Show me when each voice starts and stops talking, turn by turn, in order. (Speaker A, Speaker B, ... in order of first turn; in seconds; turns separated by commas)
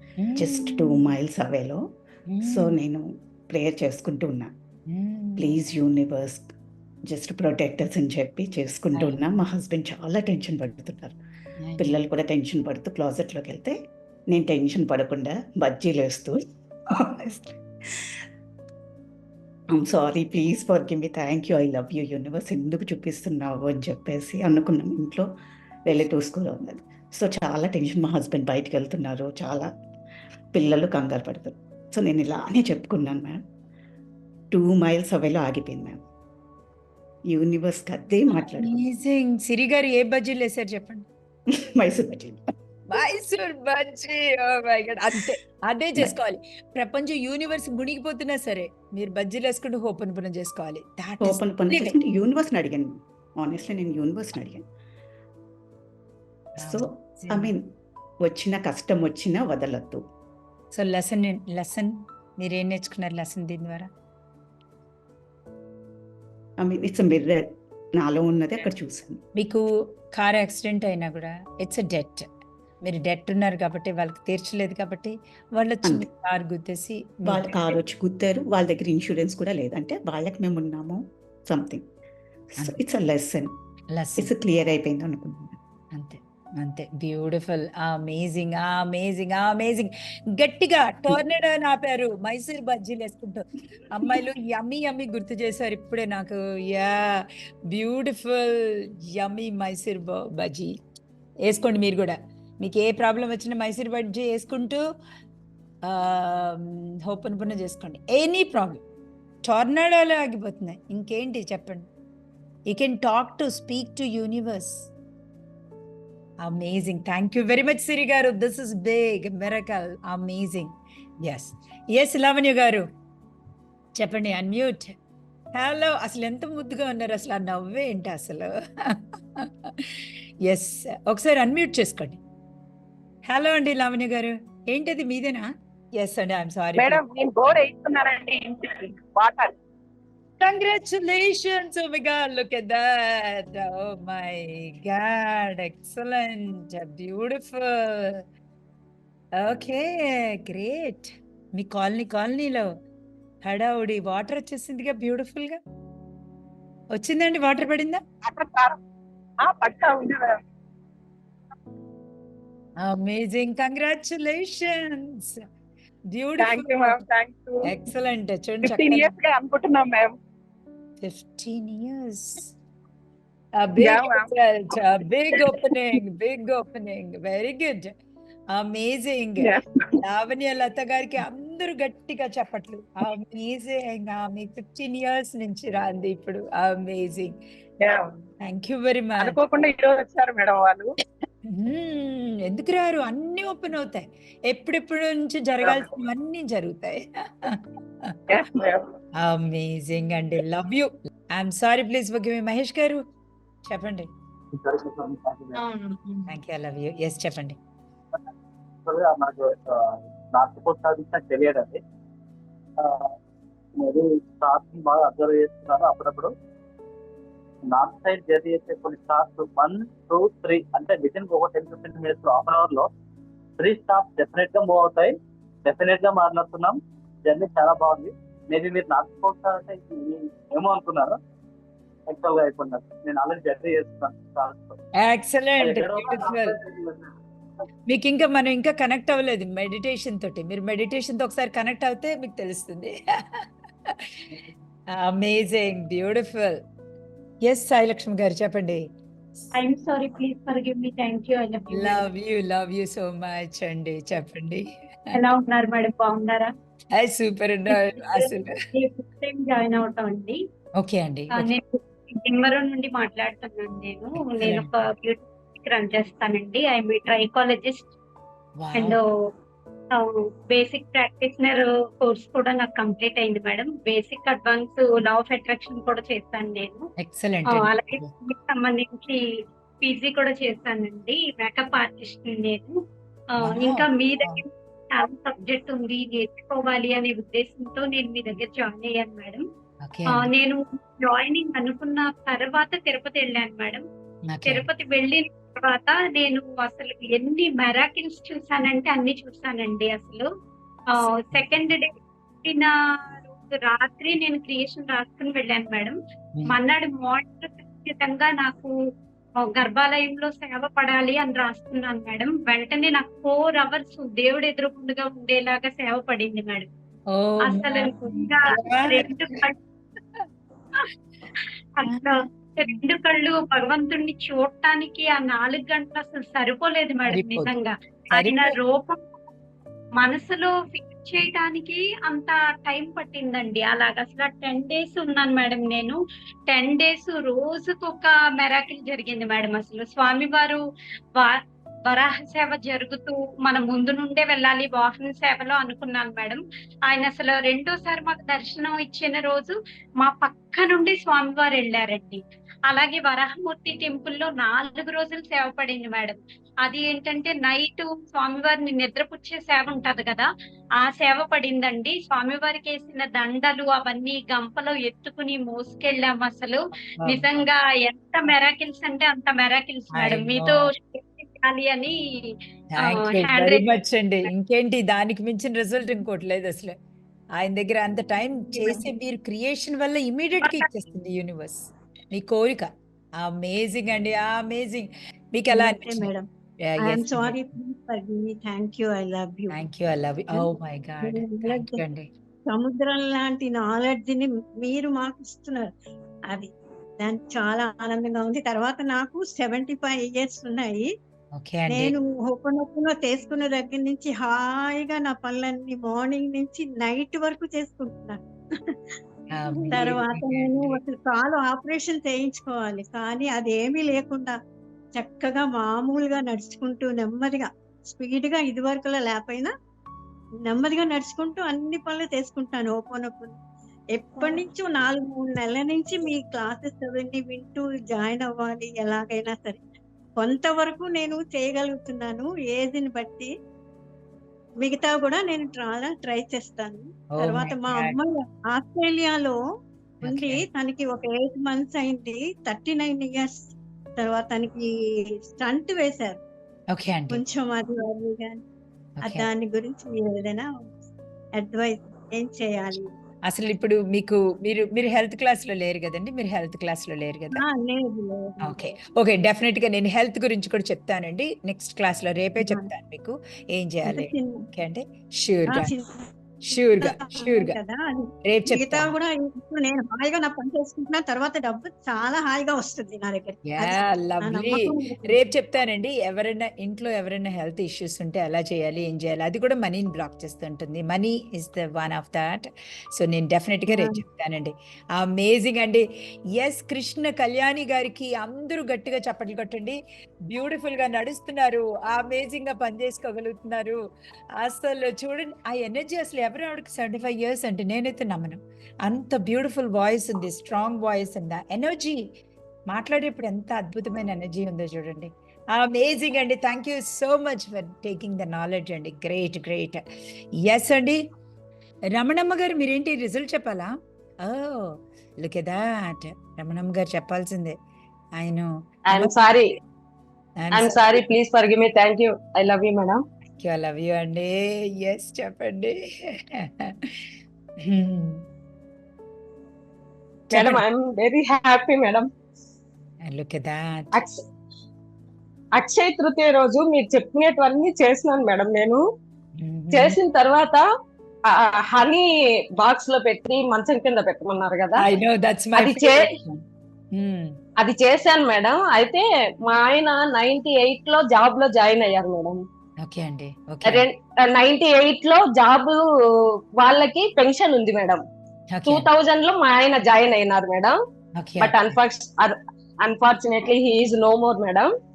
Speaker A: 0.2-1.1, Speaker B: 0.3-1.8, Speaker A: 2.3-2.8, Speaker B: 2.4-4.5, Speaker A: 4.9-5.5, Speaker B: 5.4-6.5, Speaker B: 7.1-11.2, Speaker A: 11.6-12.0, Speaker B: 11.8-13.8, Speaker B: 14.3-18.1, Speaker B: 19.7-25.3, Speaker B: 25.9-29.7, Speaker B: 30.5-33.4, Speaker B: 34.5-36.0, Speaker B: 37.3-38.7, Speaker A: 38.6-41.0, Speaker B: 41.5-42.4, Speaker A: 42.9-52.0, Speaker B: 51.2-54.6, Speaker A: 56.6-57.5, Speaker B: 56.6-57.6, Speaker B: 58.2-60.0, Speaker A: 60.7-63.9, Speaker B: 66.6-69.2, Speaker A: 69.4-72.3, Speaker A: 72.8-77.8, Speaker B: 77.2-81.8, Speaker B: 82.6-83.5, Speaker A: 83.9-84.3, Speaker B: 84.2-85.6, Speaker A: 85.9-100.7, Speaker A: 101.5-104.8, Speaker A: 105.8-108.8, Speaker A: 109.4-111.9, Speaker A: 112.7-114.9, Speaker A: 116.4-122.9, Speaker A: 124.0-125.0, Speaker A: 125.5-129.8, Speaker A: 130.4-132.2, Speaker A: 133.2-137.0, Speaker C: 136.8-139.5, Speaker A: 140.4-148.2, Speaker A: 149.4-152.7, Speaker A: 153.4-155.6, Speaker A: 156.9-158.0, Speaker C: 158.2-158.8, Speaker C: 159.4-160.4, Speaker A: 162.8-165.4, Speaker A: 166.1-167.0, Speaker C: 166.4-167.7, Speaker A: 167.6-169.1, Speaker C: 168.6-170.1, Speaker A: 171.0-172.5, Speaker A: 173.6-177.9, Speaker C: 173.8-175.7, Speaker A: 178.5-187.3, Speaker C: 179.4-179.9, Speaker C: 187.8-188.2, Speaker A: 188.4-189.4, Speaker C: 189.2-190.9, Speaker A: 191.4-198.2, Speaker C: 195.6-195.9, Speaker C: 198.3-198.9, Speaker A: 199.2-203.0, Speaker A: 203.7-204.1, Speaker D: 204.5-205.6, Speaker A: 206.3-207.6, Speaker D: 208.8-211.8, Speaker D: 212.8-213.1, Speaker D: 213.8-216.3, Speaker D: 217.7-222.9, Speaker D: 223.6-225.1, Speaker D: 225.6-231.2, Speaker D: 232.1-234.8, Speaker A: 235.0-236.6, Speaker D: 235.6-237.1, Speaker A: 237.9-243.9, Speaker A: 245.0-246.6, Speaker A: 247.4-248.8, Speaker E: 249.5-252.0, Speaker A: 251.7-255.1, Speaker E: 255.1-256.5, Speaker A: 256.9-258.5, Speaker E: 257.7-260.4, Speaker A: 260.8-261.5, Speaker E: 261.3-267.9, Speaker A: 264.2-264.7, Speaker A: 268.6-269.0, Speaker E: 268.7-269.1, Speaker E: 269.9-276.9, Speaker A: 277.0-278.1, Speaker E: 277.5-279.2, Speaker E: 279.8-282.7, Speaker E: 283.4-289.4, Speaker A: 283.4-284.4, Speaker A: 289.8-290.3, Speaker E: 290.1-293.8, Speaker A: 294.3-294.6, Speaker E: 294.4-300.3, Speaker E: 300.9-301.9, Speaker E: 302.4-308.7, Speaker E: 309.4-316.7, Speaker A: 317.1-319.4, Speaker E: 317.4-319.5, Speaker E: 321.8-329.0, Speaker A: 327.1-327.5, Speaker A: 328.1-328.6, Speaker E: 330.0-336.0, Speaker E: 336.5-340.6, Speaker E: 341.1-360.3, Speaker E: 360.8-371.9, Speaker A: 367.0-367.2, Speaker A: 369.9-370.6, Speaker A: 372.8-376.7, Speaker E: 372.8-373.8, Speaker A: 377.4-386.1, Speaker F: 378.5-378.8, Speaker F: 385.5-386.3, Speaker A: 386.6-387.4, Speaker F: 386.8-389.6, Speaker A: 389.5-392.1, Speaker F: 391.0-391.8, Speaker F: 392.5-395.7, Speaker F: 397.0-400.9, Speaker A: 401.4-401.9, Speaker F: 401.7-408.7, Speaker A: 409.3-410.8, Speaker F: 409.7-414.4, Speaker F: 414.9-419.5, Speaker F: 420.4-423.4, Speaker F: 423.9-429.6, Speaker F: 430.2-433.3, Speaker F: 434.6-439.4, Speaker A: 437.1-438.0, Speaker A: 440.0-440.4, Speaker F: 440.0-446.2, Speaker A: 446.7-447.2, Speaker F: 447.1-448.4, Speaker A: 449.0-449.3, Speaker F: 449.0-450.5, Speaker F: 451.4-452.9, Speaker A: 453.3-457.4, Speaker F: 457.4-458.7, Speaker A: 458.4-465.7, Speaker F: 462.4-462.7, Speaker F: 463.8-464.5, Speaker F: 465.5-475.2, Speaker A: 466.5-467.6, Speaker A: 468.2-468.9, Speaker A: 473.4-485.8, Speaker F: 483.7-484.0, Speaker A: 486.4-489.8, Speaker A: 490.3-493.8, Speaker A: 494.4-502.1, Speaker A: 502.7-509.8, Speaker A: 510.4-511.0, Speaker A: 511.9-513.7, Speaker A: 514.2-517.6, Speaker A: 518.2-519.4, Speaker G: 518.9-519.5, Speaker A: 520.4-521.0, Speaker G: 520.5-523.0, Speaker A: 523.4-526.9, Speaker A: 527.6-528.2, Speaker A: 530.3-530.6, Speaker G: 530.3-532.1, Speaker A: 533.0-534.1, Speaker G: 533.9-534.2, Speaker G: 535.6-538.8, Speaker A: 539.4-540.0, Speaker G: 539.7-540.6, Speaker G: 541.3-542.1, Speaker G: 542.6-544.8, Speaker A: 544.8-547.4, Speaker G: 545.5-546.1, Speaker G: 547.6-552.4, Speaker A: 552.8-553.9, Speaker G: 553.6-555.8, Speaker G: 556.6-558.0, Speaker A: 558.5-558.9, Speaker G: 558.6-560.8, Speaker A: 561.1-561.8, Speaker G: 561.4-564.7